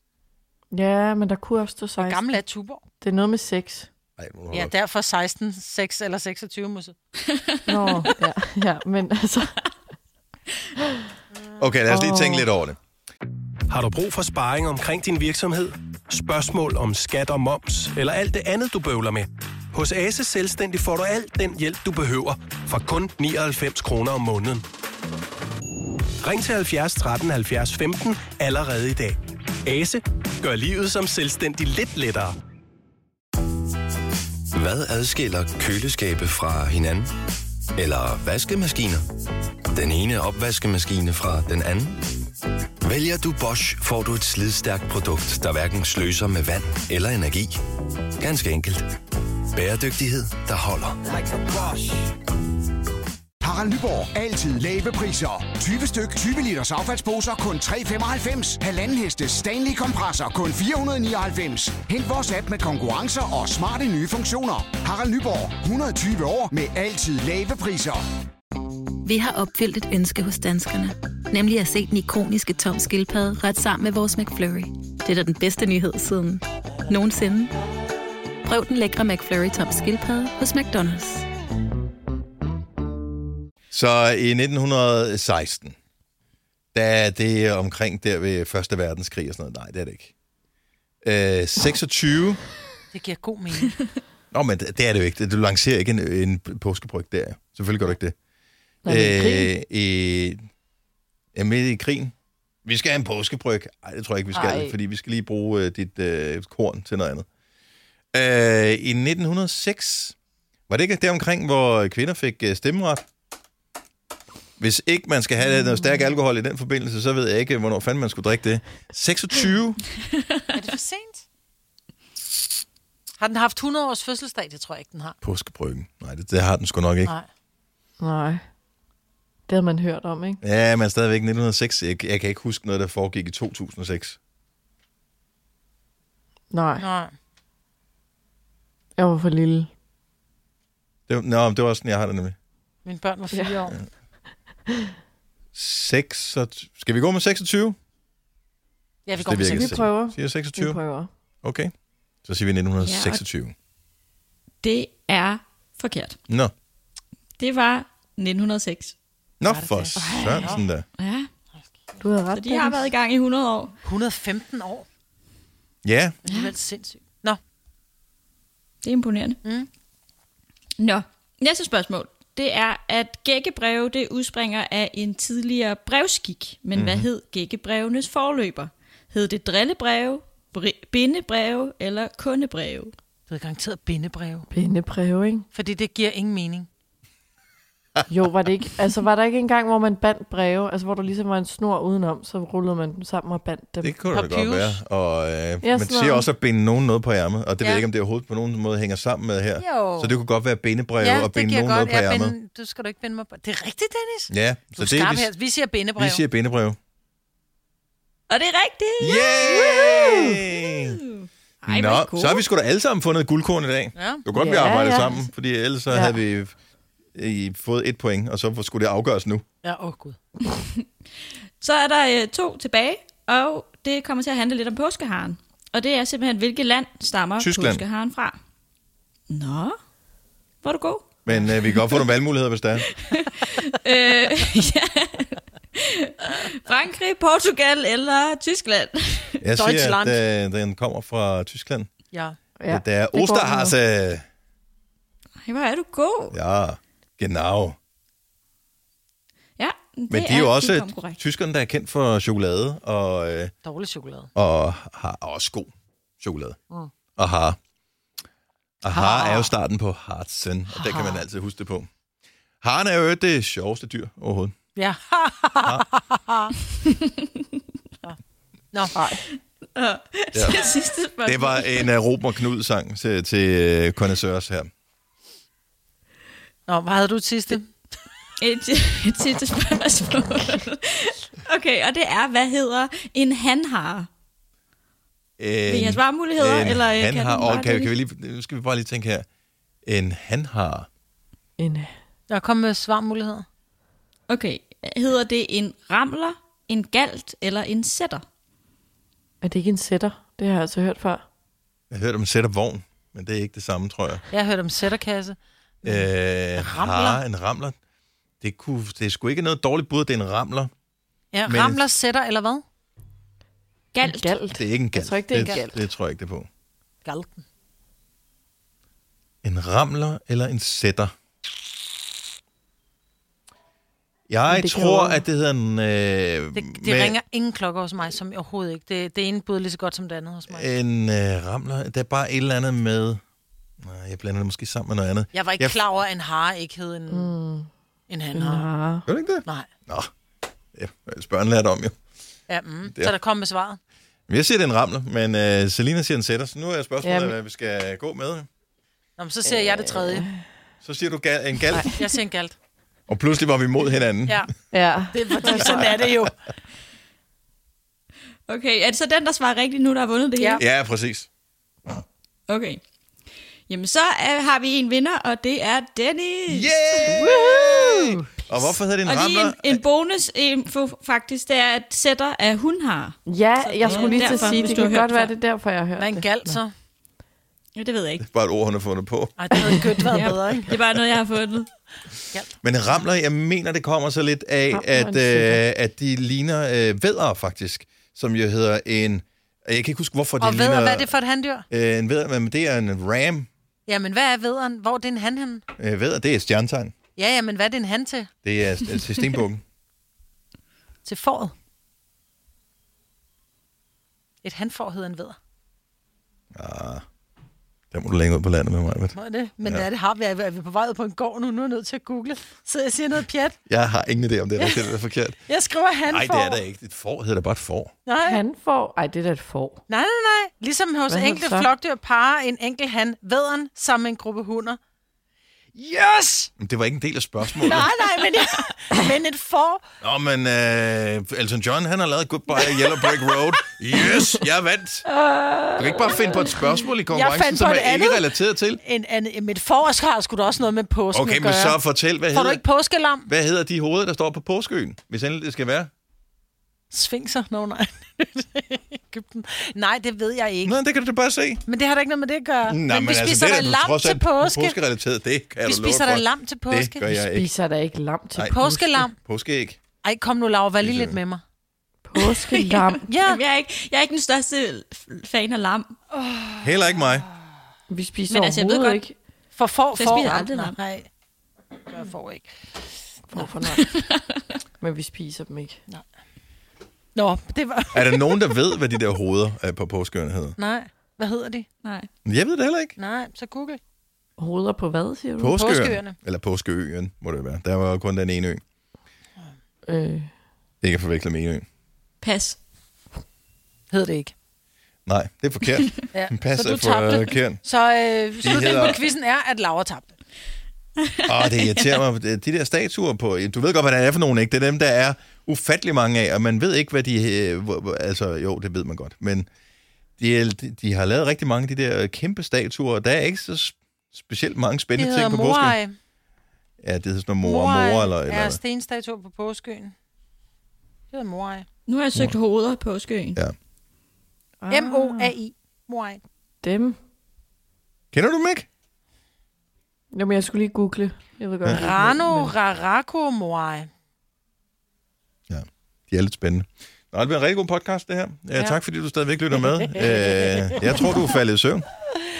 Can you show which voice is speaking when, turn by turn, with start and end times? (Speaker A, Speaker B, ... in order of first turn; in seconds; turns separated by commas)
Speaker A: 0.7-2.4, Speaker B: 2.0-2.8, Speaker A: 3.0-3.9, Speaker C: 4.2-4.7, Speaker B: 4.5-7.0, Speaker D: 7.3-8.1, Speaker A: 7.7-9.6, Speaker C: 11.6-12.8, Speaker A: 11.9-12.4, Speaker E: 13.7-24.6, Speaker E: 26.2-32.4, Speaker F: 34.5-37.1, Speaker F: 37.7-39.0, Speaker F: 39.7-42.0, Speaker F: 42.8-47.6, Speaker F: 48.2-48.9, Speaker F: 49.5-51.0, Speaker G: 51.1-52.1, Speaker G: 53.5-68.0, Speaker H: 69.0-77.5, Speaker H: 78.4-81.2, Speaker C: 83.7-85.8, Speaker C: 86.7-90.1, Speaker C: 91.0-92.4, Speaker B: 92.9-93.8, Speaker C: 94.3-98.1, Speaker A: 98.8-99.5, Speaker C: 98.8-100.4, Speaker C: 101.3-102.1, Speaker C: 102.6-107.3, Speaker A: 104.3-104.7, Speaker C: 108.1-110.1, Speaker C: 110.7-113.0, Speaker C: 114.6-119.8, Speaker B: 120.5-121.2, Speaker B: 123.2-125.2, Speaker C: 125.2-127.1, Speaker A: 128.0-128.4, Speaker A: 129.5-130.4, Speaker C: 130.4-134.2, Speaker A: 136.5-136.8, Speaker B: 136.8-137.1, Speaker A: 139.0-139.7, Speaker C: 141.1-142.3, Speaker B: 142.8-143.8, Speaker C: 145.5-147.8, Speaker B: 149.1-149.8, Speaker C: 149.2-150.8, Speaker A: 149.5-151.1, Speaker C: 151.4-151.7, Speaker C: 152.2-153.5, Speaker D: 152.8-153.2, Speaker D: 154.6-156.2, Speaker D: 157.4-158.9, Speaker C: 159.4-160.8, Speaker B: 159.4-160.6, Speaker D: 160.0-161.3, Speaker A: 162.0-162.9, Speaker D: 162.3-163.7, Speaker B: 163.8-164.8, Speaker C: 165.8-166.2, Speaker B: 166.2-167.4, Speaker D: 168.8-169.4, Speaker D: 170.8-182.9, Speaker C: 176.7-177.1, Speaker B: 183.3-184.5, Speaker A: 184.5-185.5, Speaker B: 185.5-186.7, Speaker A: 188.1-193.9, Speaker C: 193.8-202.3, Speaker B: 194.1-194.8, Speaker A: 195.6-196.3, Speaker B: 197.6-197.8, Speaker B: 199.6-200.1, Speaker B: 201.0-206.2, Speaker C: 204.3-205.3, Speaker C: 206.0-206.8, Speaker D: 208.3-212.4, Speaker C: 209.0-211.0, Speaker C: 211.7-216.5, Speaker B: 213.9-214.2, Speaker A: 214.3-215.2, Speaker A: 215.9-216.2, Speaker C: 217.1-219.4, Speaker B: 219.6-220.2, Speaker D: 221.6-228.4, Speaker C: 227.4-227.8, Speaker D: 229.3-229.8, Speaker D: 230.6-231.2, Speaker C: 231.2-232.9, Speaker D: 232.9-239.4, Speaker C: 239.4-241.9, Speaker B: 239.6-240.2, Speaker A: 242.6-243.7, Speaker C: 242.7-244.2, Speaker D: 245.4-246.3, Speaker C: 246.3-247.8, Speaker D: 249.6-251.2, Speaker C: 250.1-253.5, Speaker B: 253.6-254.3, Speaker C: 254.3-256.6, Speaker C: 257.2-257.6, Speaker C: 258.8-261.9, Speaker B: 258.9-259.5, Speaker B: 260.7-261.2, Speaker C: 262.6-264.5, Speaker B: 264.8-266.5, Speaker A: 268.9-269.2, Speaker D: 269.7-271.9, Speaker C: 270.3-270.6, Speaker C: 271.2-274.7, Speaker B: 276.7-277.7, Speaker D: 278.4-284.1, Speaker C: 285.4-289.2, Speaker D: 285.7-287.9, Speaker C: 289.8-290.9, Speaker A: 291.6-291.9, Speaker B: 292.3-293.4, Speaker D: 294.3-298.2, Speaker A: 299.4-301.2, Speaker C: 301.9-304.2, Speaker B: 304.3-307.2, Speaker C: 305.8-307.8, Speaker C: 308.4-310.7, Speaker B: 311.3-312.6, Speaker C: 311.4-311.8, Speaker D: 313.9-314.4, Speaker A: 314.0-315.8, Speaker C: 314.6-316.5, Speaker B: 317.0-317.4, Speaker C: 319.4-321.1, Speaker C: 324.3-327.2, Speaker A: 324.5-325.2, Speaker B: 326.5-330.7, Speaker C: 330.5-333.2, Speaker C: 333.8-335.8, Speaker B: 335.3-337.3, Speaker A: 337.1-337.7, Speaker B: 338.1-338.7, Speaker A: 338.3-339.1, Speaker C: 339.1-340.1, Speaker C: 340.7-341.9, Speaker B: 342.5-343.8, Speaker C: 344.3-348.5, Speaker A: 347.0-347.3, Speaker B: 349.2-350.3, Speaker A: 349.5-350.4, Speaker C: 350.8-351.9, Speaker B: 351.9-352.5, Speaker C: 353.1-354.5, Speaker A: 354.7-355.8, Speaker B: 355.1-356.3, Speaker D: 358.5-360.6, Speaker C: 360.6-361.3, Speaker D: 362.5-362.8, Speaker D: 363.7-366.7, Speaker C: 366.5-369.8, Speaker A: 367.1-368.0, Speaker D: 369.0-375.3, Speaker A: 373.2-376.6, Speaker C: 373.8-374.1, Speaker B: 374.2-374.9, Speaker B: 376.0-376.7, Speaker D: 377.8-378.2, Speaker C: 378.2-380.3, Speaker B: 379.4-380.7, Speaker D: 380.1-381.7, Speaker C: 382.6-391.1, Speaker A: 384.7-385.6, Speaker B: 390.4-391.6, Speaker C: 391.7-393.5, Speaker B: 393.9-395.6, Speaker C: 395.8-396.9, Speaker B: 397.1-398.3, Speaker C: 398.4-399.6, Speaker B: 401.0-401.5, Speaker B: 404.4-405.4, Speaker C: 406.5-407.1, Speaker C: 407.9-409.9, Speaker B: 409.1-413.6, Speaker C: 413.7-415.4, Speaker B: 414.6-414.9, Speaker B: 415.5-416.6, Speaker C: 416.1-417.9, Speaker B: 418.1-418.4, Speaker A: 418.2-419.8, Speaker B: 419.9-424.8, Speaker A: 421.1-421.7, Speaker B: 425.7-426.5, Speaker C: 426.6-427.9, Speaker B: 427.6-429.8, Speaker C: 430.0-435.0, Speaker C: 435.8-438.8, Speaker B: 437.1-438.3, Speaker B: 438.8-441.8, Speaker C: 441.1-442.6, Speaker B: 442.3-443.3, Speaker C: 443.2-445.9, Speaker B: 446.9-450.8, Speaker C: 450.6-451.6, Speaker B: 451.6-454.8, Speaker C: 452.7-457.5, Speaker B: 455.6-457.1, Speaker A: 457.1-458.8, Speaker C: 458.3-459.8, Speaker B: 458.5-459.2, Speaker B: 460.0-461.4, Speaker C: 460.8-461.2, Speaker A: 462.1-463.1, Speaker D: 462.2-465.9, Speaker B: 463.1-463.4, Speaker B: 466.1-467.1, Speaker C: 466.6-467.2, Speaker A: 467.9-469.1, Speaker D: 468.3-469.0, Speaker B: 469.6-471.1, Speaker D: 469.9-470.8, Speaker B: 471.9-472.5, Speaker A: 473.3-473.9, Speaker D: 473.7-474.4, Speaker A: 474.8-475.8, Speaker B: 477.1-478.6, Speaker C: 477.9-480.6, Speaker B: 480.6-481.7, Speaker D: 481.8-482.1, Speaker C: 482.2-482.9, Speaker B: 483.0-483.8, Speaker A: 484.4-485.6, Speaker C: 485.4-488.6, Speaker B: 485.6-486.1, Speaker A: 489.9-490.3, Speaker C: 490.8-491.6, Speaker D: 492.2-492.6, Speaker B: 493.9-494.3, Speaker C: 495.1-497.6, Speaker B: 496.1-500.1, Speaker C: 498.4-499.0, Speaker D: 501.0-502.0, Speaker C: 501.2-509.5, Speaker C: 510.2-515.8, Speaker B: 515.0-516.0, Speaker C: 516.8-518.6, Speaker B: 517.4-519.9, Speaker B: 521.1-521.6, Speaker D: 521.9-523.4, Speaker A: 524.6-525.3, Speaker B: 524.7-526.2, Speaker A: 526.6-527.0, Speaker C: 528.1-528.6, Speaker A: 530.1-532.5, Speaker B: 531.7-533.9, Speaker C: 535.5-541.9, Speaker B: 539.6-541.0